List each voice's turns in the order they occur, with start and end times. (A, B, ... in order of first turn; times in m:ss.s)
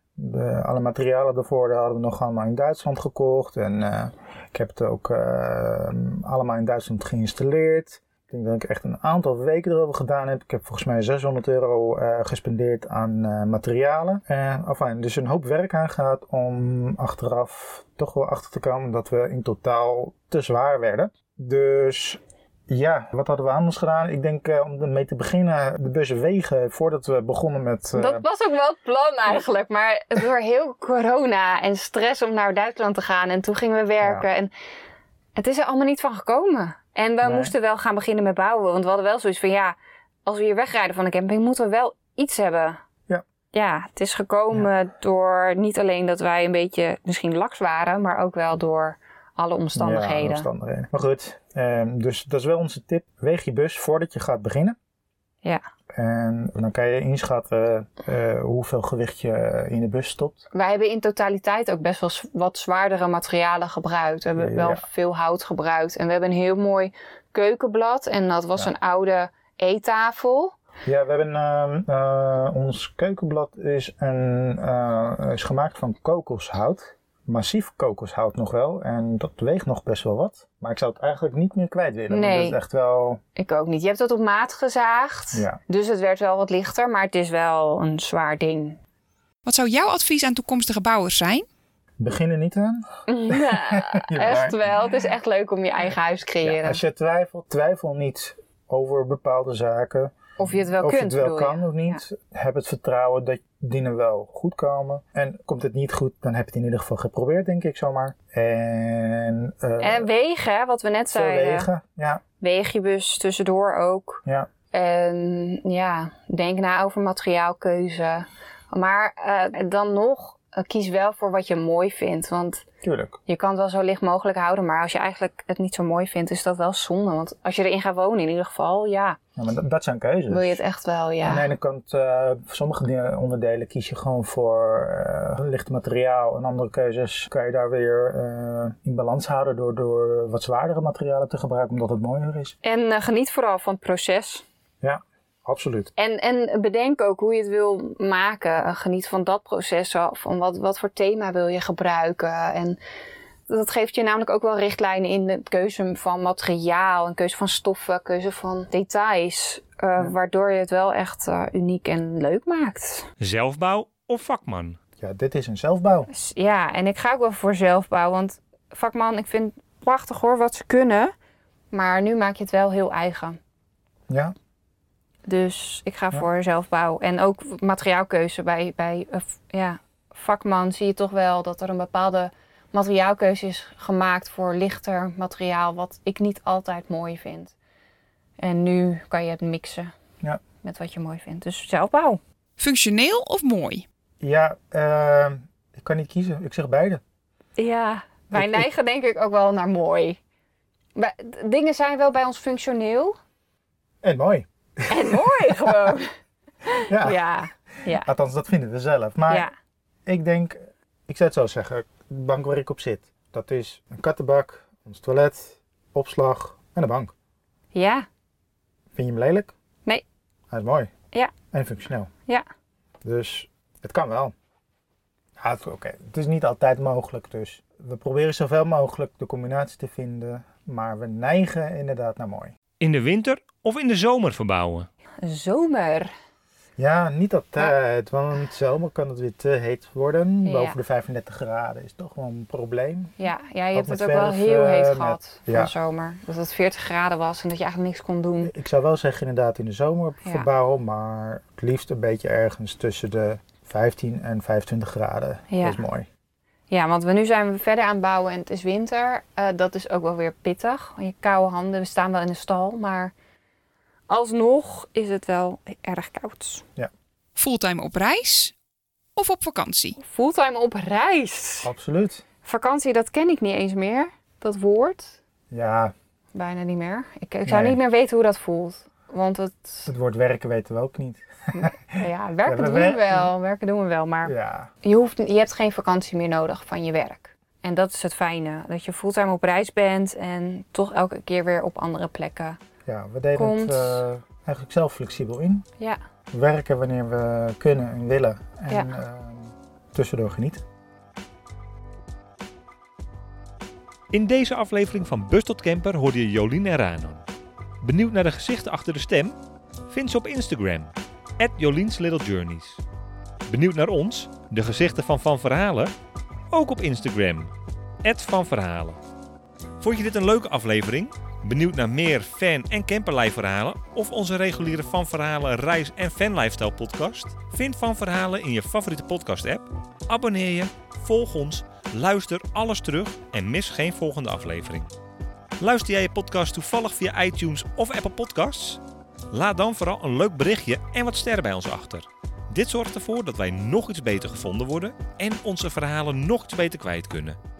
0:00.2-0:28.2 A
0:28.0-0:34.5 B
0:35.4-0:42.8 B
0:37.2-0:37.5 A
0:43.5-0:50.5 B
0:49.8-0:54.8 A
0:55.9-1:00.4 A
1:00.5-1:10.5 B
1:04.4-1:04.8 A
1:10.8-1:23.2 A
1:22.1-1:22.6 B
1:23.4-1:28.8 B
1:25.3-1:25.6 A
1:29.4-1:31.4 C
1:32.0-1:34.8 A
1:33.1-1:36.8 B
1:36.4-1:50.1 A
1:40.4-1:42.0 B
1:49.8-1:51.7 B
1:51.1-1:52.2 A
1:52.4-2:02.6 B
2:02.8-2:03.2 A
2:03.3-2:09.2 B
2:09.4-2:10.6 A
2:10.3-2:11.5 B
2:11.2-2:22.5 A
2:22.6-2:24.4 B
2:24.8-2:25.9 A
2:26.0-2:32.8 B
2:33.5-2:43.1 B
2:43.2-2:44.8 D
2:45.0-2:46.1 A
2:46.1-2:51.1 B
2:51.7-2:53.4 B
2:54.1-2:54.3 A
2:55.2-3:07.5 B
3:08.4-3:09.9 B
3:10.6-3:12.2 B
3:12.6-3:13.8 C
3:14.2-3:17.0 A
3:17.6-3:20.2 B
3:18.3-3:18.7 A
3:21.0-3:23.1 B
3:24.0-3:25.9 A
3:24.9-3:26.1 B
3:26.6-3:28.1 B
3:26.9-3:29.4 A
3:30.0-3:37.1 A
3:37.7-3:38.0 B
3:38.9-3:39.5 A
3:40.5-3:40.9 A
3:41.5-3:42.1 A
3:43.0-3:44.3 A
3:45.4-3:52.5 A
3:52.8-3:54.9 D
3:55.2-3:56.1 B
3:56.8-4:05.7 A
4:00.4-4:00.8 B
4:03.2-4:08.5 B
4:08.4-4:16.1 A
4:15.5-4:15.8 B
4:16.7-4:23.1 B
4:24.1-4:26.6 B
4:27.3-4:28.5 C
4:29.1-4:30.0 C
4:30.0-4:31.7 B
4:31.6-4:32.2 A
4:32.4-4:35.2 B
4:35.5-4:35.9 A
4:36.3-4:39.9 B
4:37.4-4:37.8 A
4:39.9-4:43.3 A
4:41.5-4:44.3 B
4:44.2-4:44.7 A
4:44.8-4:52.6 B
4:52.8-4:55.6 A
4:53.4-4:54.0 B
4:56.3-5:00.6 A
5:04.1-5:07.2 D
5:07.8-5:09.4 D
5:09.9-5:12.8 D
5:13.5-5:15.9 D
5:16.5-5:17.5 D
5:18.0-5:19.0 D
5:19.8-5:34.9 D
5:35.6-5:47.4 D